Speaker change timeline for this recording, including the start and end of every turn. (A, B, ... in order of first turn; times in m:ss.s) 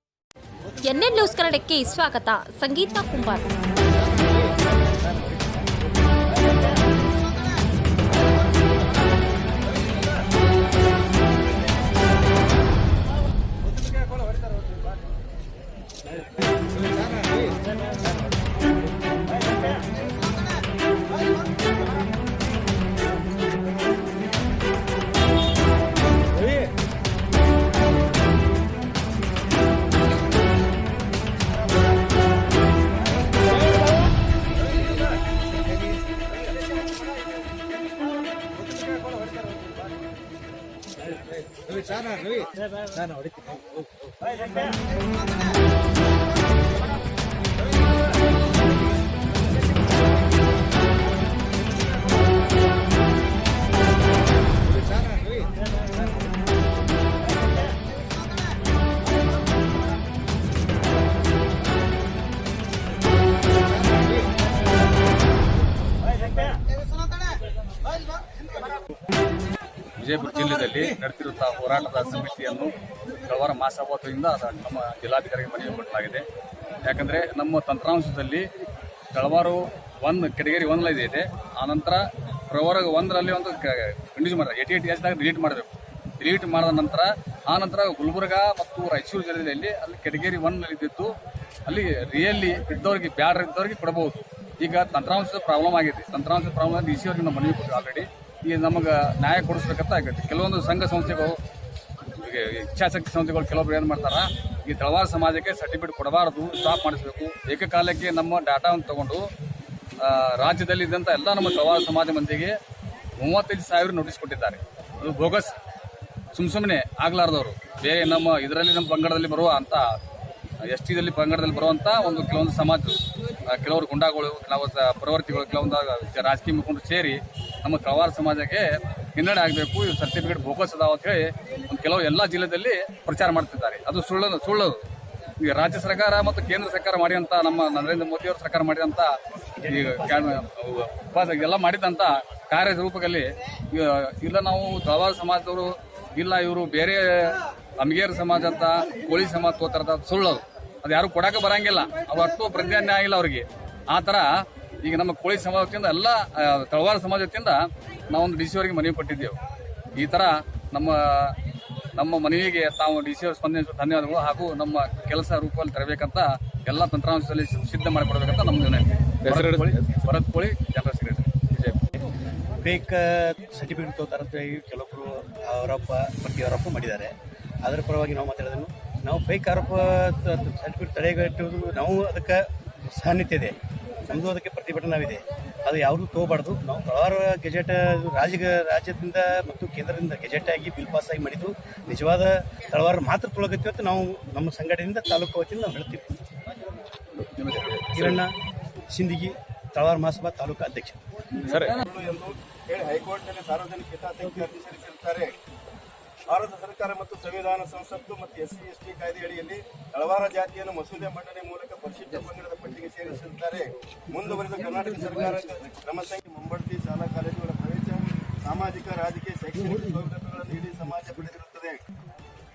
0:00.8-0:03.6 A
1:10.0-1:12.7 B
1:13.2-1:16.2 B
1:16.8-1:18.5 B
1:19.1-1:31.1 B
1:31.7-1:41.4 B
1:42.0-1:49.3 B
1:50.0-1:52.6 B
1:53.2-1:55.6 B
1:56.3-1:59.9 B
2:00.7-2:14.8 B
2:15.4-2:19.1 B
2:19.6-2:20.4 C
2:19.7-2:39.4 B
2:40.0-2:41.3 B
2:42.0-2:51.9 B
2:52.6-2:57.1 C
2:57.6-3:16.0 C
3:17.2-3:18.2 B
3:17.9-3:18.3 C
3:18.9-3:21.0 C
3:21.4-3:21.8 B
3:21.8-3:25.3 D
3:26.3-3:41.8 D